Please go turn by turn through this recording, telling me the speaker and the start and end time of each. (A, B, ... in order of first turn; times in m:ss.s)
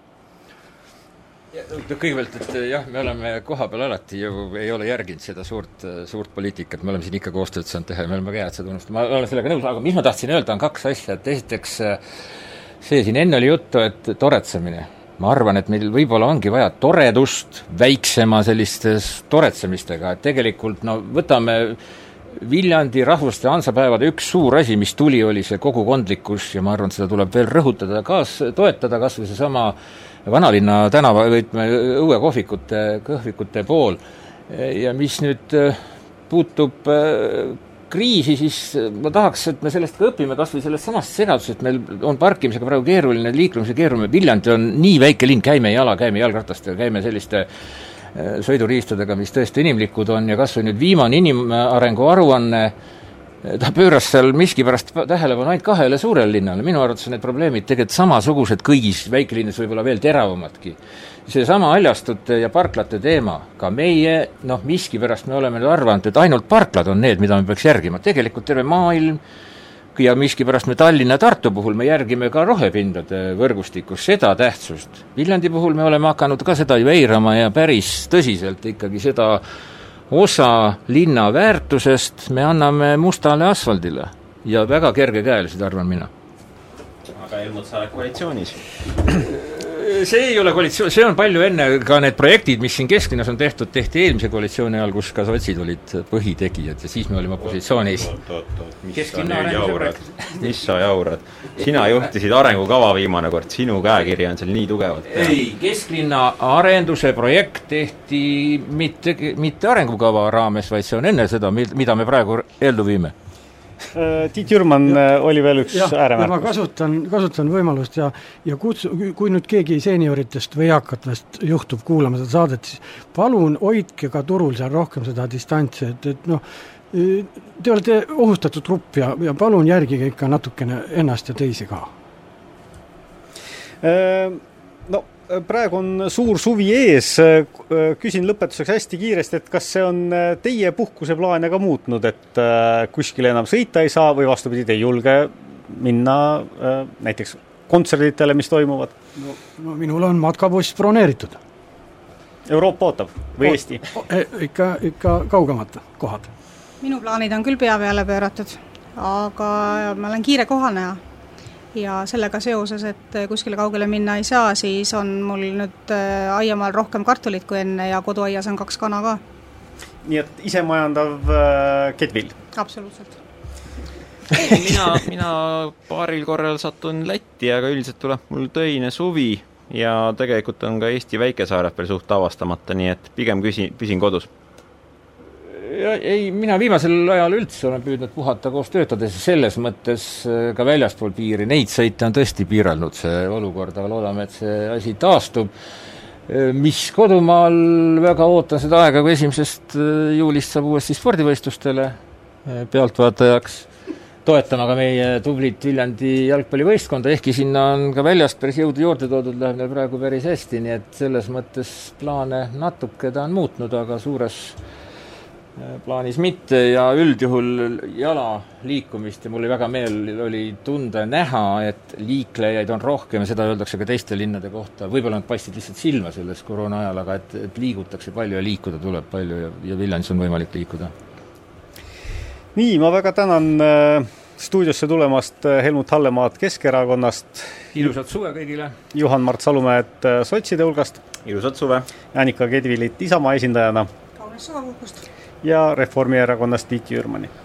0:01.5-0:12.0 A
0:12.8-0:21.8 A
0:22.3-0:35.8 A
0:36.3-0:47.5 A
0:48.1-0:52.7 A
0:53.4-1:09.2 A
1:09.9-1:19.4 A
1:20.1-1:26.1 A
1:27.1-1:28.6 B
1:29.2-1:38.1 A
1:37.4-1:45.4 B
1:38.9-1:40.3 A
1:45.1-1:53.1 A
1:53.9-1:56.4 C
1:55.7-2:11.9 D
2:13.8-2:29.0 C
2:29.2-2:31.4 D
2:32.5-2:33.8 C
2:33.9-2:36.3 D
2:36.8-2:41.0 E
2:41.7-2:49.2 E
2:50.0-2:52.3 C
2:52.5-2:53.2 E
2:54.3-3:04.3 B
3:05.4-3:15.5 A
3:16.3-3:23.7 A
3:24.2-3:34.6 A
3:35.6-3:50.9 A
3:52.5-3:57.9 C
3:57.7-3:58.8 A
3:58.9-4:01.0 C
4:01.2-4:01.9 B
4:02.1-4:03.9 C
4:04.2-4:05.1 E
4:05.4-4:07.3 C